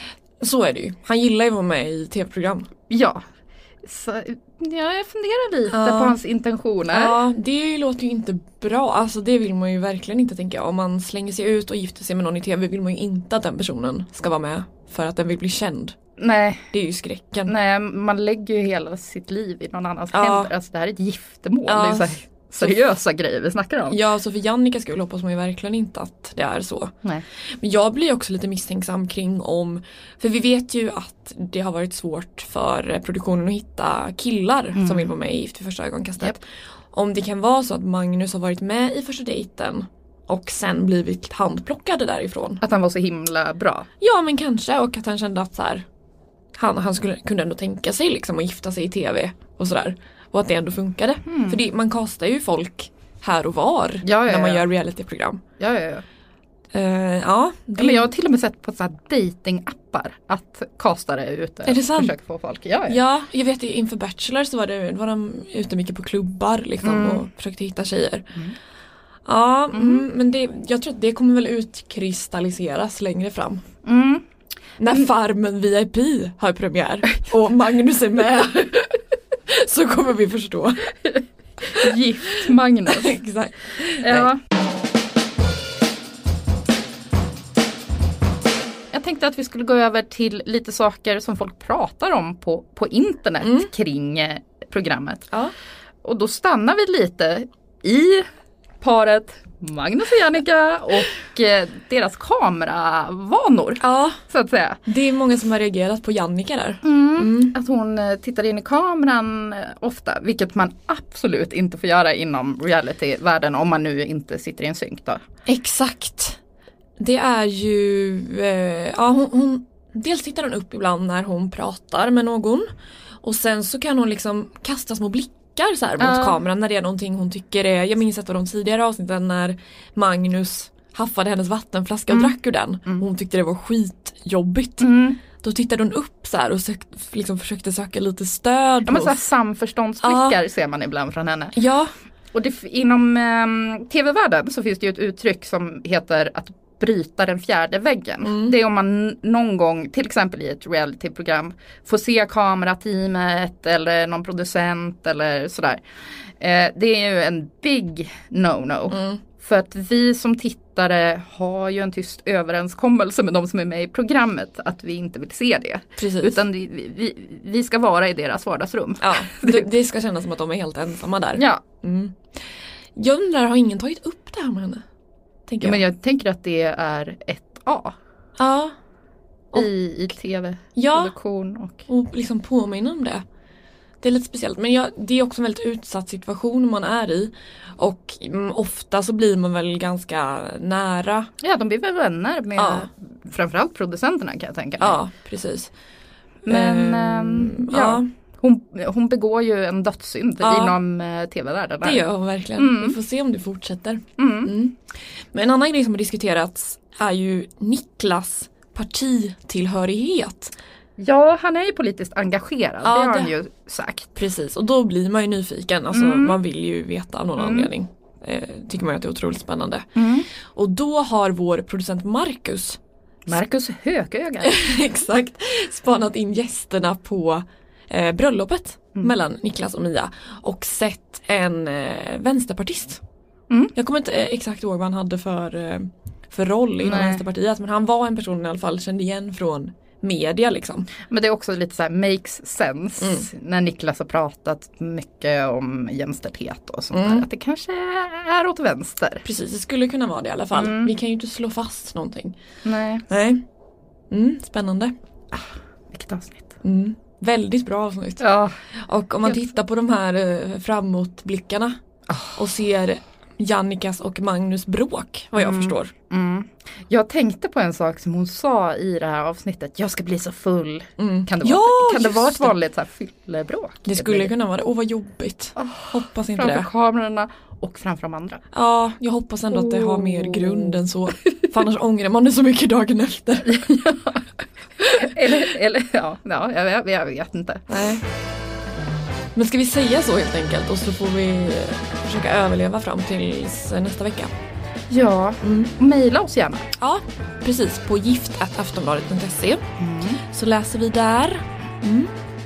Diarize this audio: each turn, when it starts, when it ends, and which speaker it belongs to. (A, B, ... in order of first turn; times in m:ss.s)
0:00.4-0:02.7 A
0:02.9-0:03.2 B
0:03.8-0:07.2 B
0:05.7-0:06.2 A
0:06.9-0:16.0 A
0:16.2-0:16.6 B
0:16.7-0:17.5 A
0:17.5-0:24.0 B
0:20.1-0:20.5 A
0:21.7-0:22.8 A
0:23.9-0:42.6 A
0:34.7-0:35.1 B
0:42.6-0:43.9 B
0:44.0-0:45.8 A
0:46.6-0:55.4 A
0:51.2-0:51.6 B
0:54.0-0:54.6 B
0:55.6-0:56.0 B
0:56.7-0:58.1 A
0:57.8-1:03.0 B
1:01.6-1:02.1 A
1:02.9-1:08.3 A
1:06.8-1:07.2 B
1:09.2-1:13.6 A
1:09.7-1:10.1 B
1:13.8-1:14.2 B
1:14.8-1:20.9 A
1:21.7-1:23.2 B
1:22.9-1:24.3 A
1:24.0-1:24.4 B
1:28.9-1:35.3 B
1:33.4-1:33.7 A
1:36.0-1:38.3 B
1:38.8-1:44.8 B
1:43.8-1:44.2 A
1:44.8-1:47.5 A
1:46.8-1:55.2 B
1:55.5-1:56.4 A
1:57.0-2:02.7 A
2:03.2-2:19.2 A
2:06.0-2:06.4 B
2:12.1-2:12.3 B
2:14.8-2:15.2 B
2:18.8-2:21.6 B
2:20.0-2:20.4 A
2:21.5-2:21.9 A
2:22.3-2:35.8 B
2:28.2-2:28.6 A
2:36.4-2:49.7 B
2:38.9-2:39.2 A
2:46.0-2:46.4 A
2:49.0-2:54.8 A
2:51.4-2:51.6 B
2:55.5-2:55.8 A
2:55.6-2:57.9 B
2:58.4-2:58.7 A
2:59.5-3:01.8 B
3:00.7-3:01.1 A
3:01.9-3:03.2 A
3:04.0-3:11.3 A
3:11.4-3:15.0 B
3:12.6-3:12.9 A
3:14.8-3:15.7 A
3:16.4-3:23.0 B
3:16.5-3:18.1 A
3:20.4-3:20.8 A
3:21.8-3:30.5 A
3:24.2-3:24.5 B
3:31.0-3:34.1 B
3:32.8-3:33.3 A
3:34.1-3:42.8 A
3:35.9-3:36.4 B
3:37.4-3:37.7 B
3:40.0-3:40.3 B
3:43.3-3:44.5 B
3:44.4-3:53.0 A
3:53.7-4:00.9 A
3:56.8-3:57.2 B
4:01.0-4:09.2 B
4:03.0-4:03.3 A
4:06.9-4:07.2 A
4:09.2-4:12.4 A
4:10.5-4:10.9 B
4:12.6-4:13.0 B
4:13.1-4:13.4 A
4:14.1-4:14.9 A
4:15.3-4:16.5 B
4:16.6-4:21.8 A
4:18.2-4:18.5 B
4:22.1-4:22.3 B
4:22.3-4:25.9 A
4:25.4-4:34.3 B
4:31.0-4:32.5 A
4:33.8-4:36.7 A
4:35.6-4:38.4 B
4:38.5-4:43.6 A
4:39.5-4:41.4 B
4:43.4-4:44.2 B
4:44.8-4:47.6 B
4:47.7-4:48.0 A
4:49.3-4:54.3 A
4:54.9-4:56.7 B
4:55.4-4:55.7 A
4:56.8-4:59.6 A
4:59.8-5:00.2 B
5:00.3-5:02.1 A